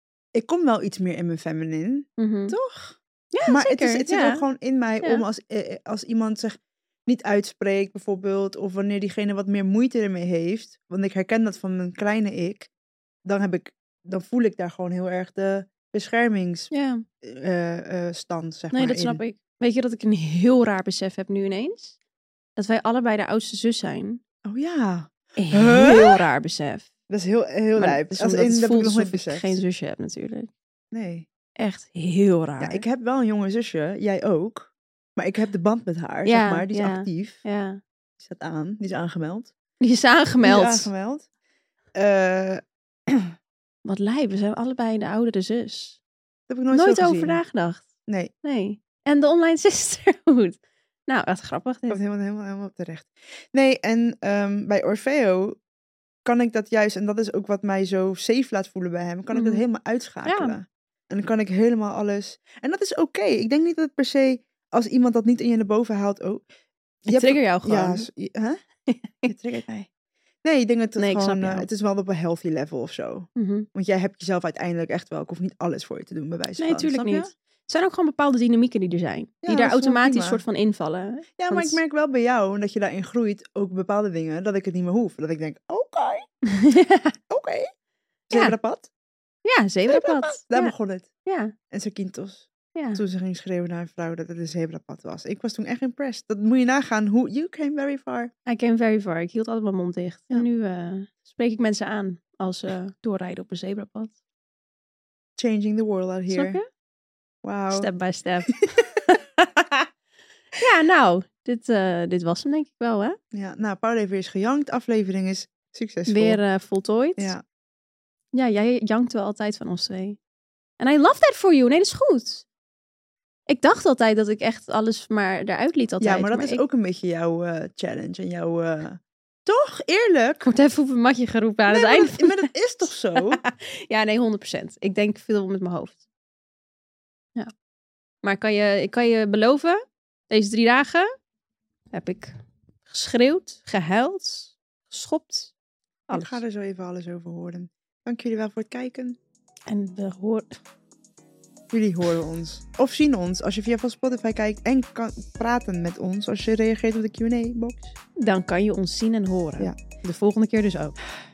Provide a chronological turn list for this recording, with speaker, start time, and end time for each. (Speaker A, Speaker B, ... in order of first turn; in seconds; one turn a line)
Speaker A: 0.3-12.7
Speaker B: 2.2-2.6
Speaker B: 3.3-4.4
Speaker A: 13.2-16.7
Speaker B: 16.7-17.0
Speaker A: 17.2-19.2
Speaker B: 18.7-21.9
Speaker B: 22.6-24.2
Speaker A: 24.4-26.2
Speaker B: 25.4-26.9
Speaker A: 27.1-29.6
Speaker B: 27.7-30.5
Speaker A: 30.9-31.2
Speaker B: 31.6-32.8
Speaker A: 32.6-37.4
Speaker B: 36.2-37.8
Speaker A: 38.2-39.5
Speaker B: 39.8-40.9
Speaker A: 40.4-41.3
Speaker A: 41.9-43.3
Speaker B: 43.8-46.0
Speaker A: 46.5-47.4
Speaker B: 46.7-47.9
Speaker B: 48.4-52.0
Speaker A: 51.9-55.6
Speaker A: 56.2-66.4
Speaker B: 59.3-59.6
Speaker B: 60.2-60.5
Speaker A: 67.0-68.6
Speaker B: 67.1-68.1
Speaker B: 68.8-69.3
Speaker A: 69.2-69.9
Speaker A: 70.4-77.3
Speaker B: 71.0-71.7
Speaker B: 73.3-73.7
Speaker B: 76.6-81.8
Speaker A: 79.4-80.4
Speaker A: 81.4-86.3
Speaker B: 86.5-87.1
Speaker A: 87.3-87.7
Speaker A: 88.3-88.9
Speaker B: 89.4-91.5
Speaker A: 89.9-91.1
Speaker A: 91.7-98.3
Speaker B: 92.8-93.0
Speaker B: 98.5-104.1
Speaker A: 105.4-106.6
Speaker B: 106.3-106.7
Speaker A: 107.4-107.9
Speaker B: 107.7-109.9
Speaker B: 110.6-113.2
Speaker A: 113.3-116.4
Speaker B: 116.1-117.3
Speaker A: 117.2-117.4
Speaker B: 118.3-120.2
Speaker B: 120.8-122.5
Speaker B: 123.5-126.6
Speaker A: 126.0-130.4
Speaker B: 130.4-132.5
Speaker A: 131.7-133.4
Speaker B: 133.1-136.0
Speaker B: 138.2-141.1
Speaker B: 141.9-142.3
Speaker B: 142.8-145.5
Speaker B: 146.1-146.4
Speaker A: 146.1-149.2
Speaker B: 149.7-150.6
Speaker A: 151.7-157.9
Speaker B: 158.2-160.9